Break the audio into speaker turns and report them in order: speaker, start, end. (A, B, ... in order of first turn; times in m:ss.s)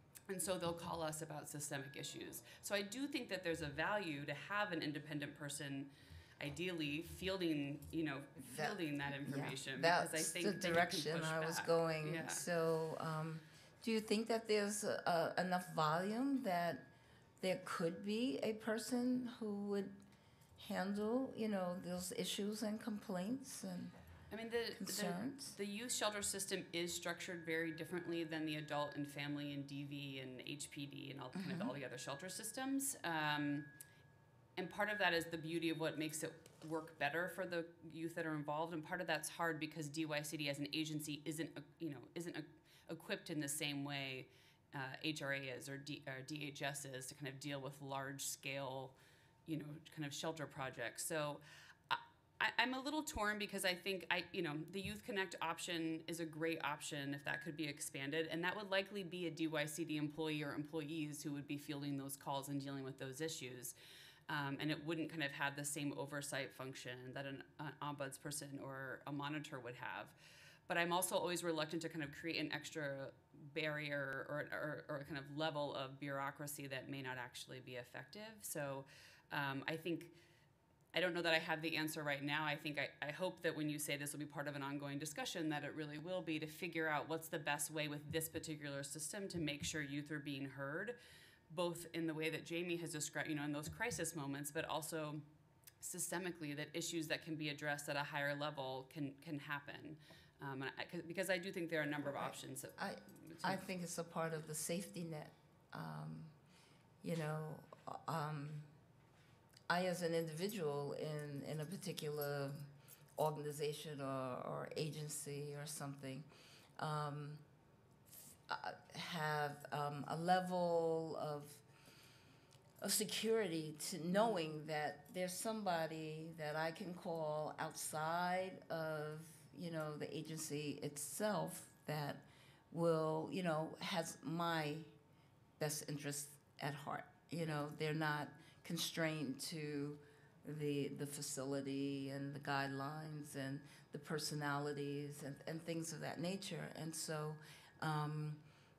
0:00.3-0:12.4 A
0:08.4-0:16.9 B
0:17.4-0:20.0 B
0:20.6-0:24.0 B
0:24.3-0:33.7 A
0:24.8-0:25.6 B
0:31.3-0:31.8 B
0:34.6-1:03.8 A
1:04.3-1:20.2 A
1:20.9-1:31.0 A
1:31.5-1:35.3 A
1:35.8-1:43.7 A
1:42.0-1:46.4 B
1:47.0-1:48.7 B
1:49.7-1:57.4 B
1:58.5-2:01.6 B
2:02.8-2:14.9 B
2:15.6-2:28.4 B